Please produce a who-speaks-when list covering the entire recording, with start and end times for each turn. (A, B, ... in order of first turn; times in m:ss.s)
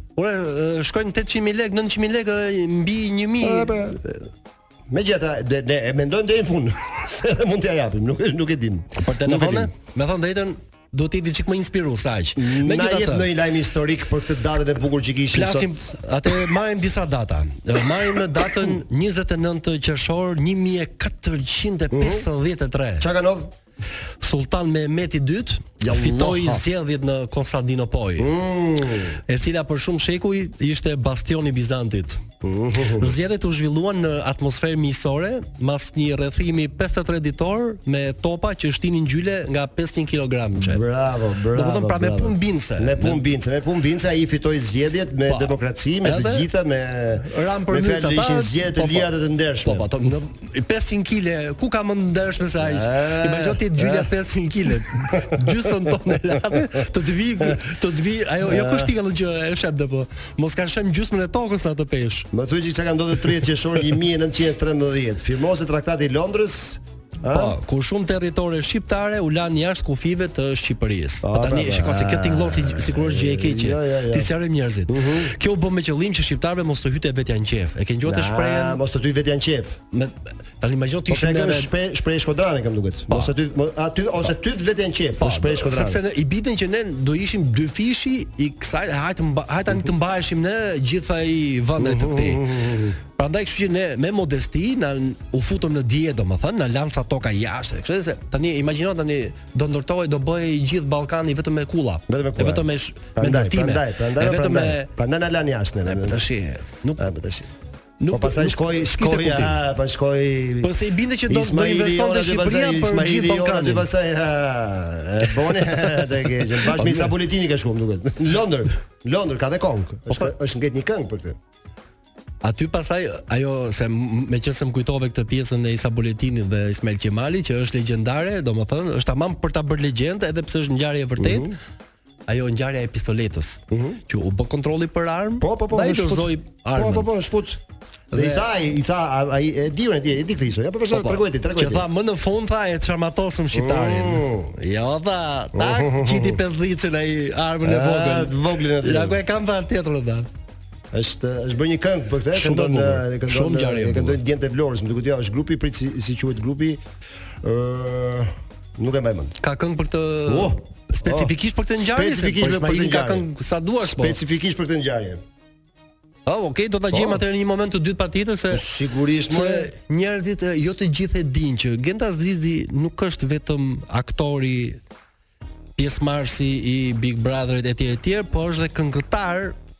0:00.2-0:04.2 A
0:03.4-0:04.0 B
0:04.9-0:09.7 B
0:09.0-0:13.3 A
0:12.4-0:15.8 B
0:15.3-0:23.1 A
0:21.9-0:22.2 B
0:23.0-0:23.5 B
0:24.2-0:28.3 A
0:25.8-0:26.6 B
0:28.2-0:29.2 B
0:29.3-0:32.2 A
0:32.4-0:33.1 B
0:33.0-0:40.8 A
0:40.6-0:49.9 B
0:41.5-0:43.2 A
0:45.3-0:46.5 A
0:47.2-0:49.1 A
0:49.6-1:02.3 A
0:52.6-0:54.1 B
0:55.1-0:55.7 B
0:58.4-0:58.9 B
1:02.3-1:07.6 B
1:07.2-1:18.8 A
1:11.2-1:14.3 B
1:14.9-1:15.3 B
1:18.0-1:19.8 B
1:19.9-1:21.7 A
1:21.1-1:26.0 B
1:25.2-1:32.4 A
1:31.8-1:33.0 B
1:33.2-1:44.9 A
1:42.1-1:46.2 B
1:45.8-1:47.1 A
1:47.0-1:47.5 B
1:48.0-1:49.6 A
1:48.1-1:50.7 B
1:50.6-1:53.9 A
1:51.3-2:01.4 B
1:56.7-1:57.1 A
2:02.4-2:11.6 A
2:11.2-2:11.6 B
2:12.3-2:17.1 A
2:13.7-2:14.0 B
2:15.4-2:17.6 B
2:18.1-2:18.4 A
2:18.1-2:21.9 B
2:20.9-2:30.3 A
2:23.5-2:24.5 B
2:25.5-2:26.4 B
2:27.6-2:29.2 B
2:30.9-2:36.8 B
2:32.3-2:34.2 A
2:37.4-2:39.4 B
2:39.4-2:44.2 A
2:40.3-2:43.3 B
2:43.8-2:45.2 B
2:46.2-2:48.6 A
2:46.9-2:47.2 B
2:48.5-2:49.7 B
2:49.3-2:54.8 A
2:55.8-2:59.6 A